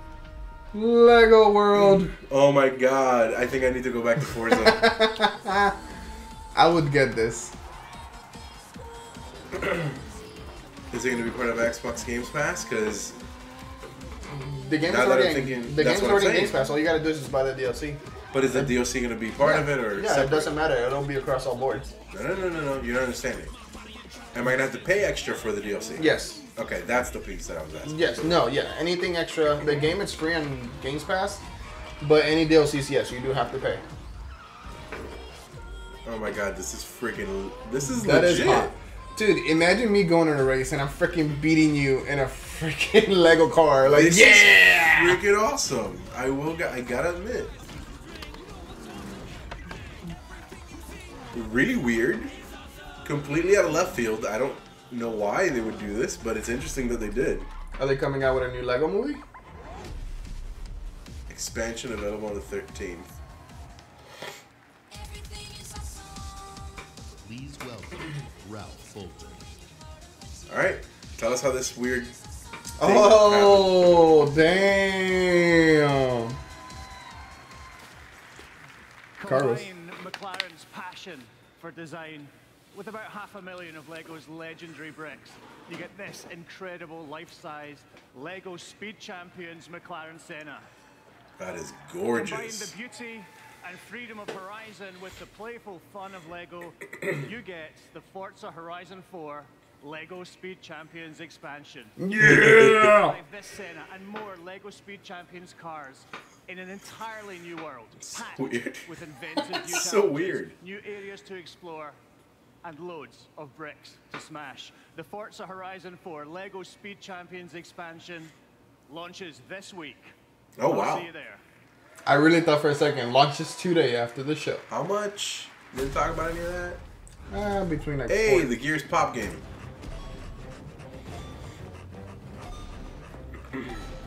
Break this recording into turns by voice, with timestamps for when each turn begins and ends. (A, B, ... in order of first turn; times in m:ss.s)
0:00.7-0:02.1 A
0:01.8-0:04.9 B
0:04.5-0:05.8 A
0:06.5-0:07.5 A
0:09.6-0:09.9 B
0:10.9-0:13.2 B
0:14.3-0:18.7 A
0:14.8-0:16.6 B
0:18.3-0:20.5 B
0:19.4-0:21.9 A
0:22.1-0:23.5 B
0:24.3-0:28.4 B
0:26.0-0:26.4 A
0:27.8-0:31.4 A
0:32.0-0:33.8 A
0:36.0-0:38.8 B
0:37.8-0:45.2 A
0:43.8-0:47.5 B
0:51.3-0:52.3 B
0:53.0-0:57.5 B
0:57.8-0:59.2 A
1:01.3-1:03.1 B
1:07.2-1:09.5 C
1:10.5-1:12.2 B
1:12.8-1:14.2 B
1:12.8-1:16.4 A
1:19.2-1:30.7 D
1:19.2-1:19.6 A
1:31.4-1:32.7 B
1:32.1-1:42.0 D
1:42.0-1:43.2 A
1:42.2-1:42.9 B
1:42.9-1:52.0 D
1:48.1-1:50.6 B
1:52.6-1:58.3 D
1:58.9-2:00.1 D
2:00.6-2:01.1 B
2:00.6-2:01.4 D
2:02.0-2:04.6 A
2:04.7-2:06.8 B
2:07.3-2:08.5 A
2:08.1-2:09.4 B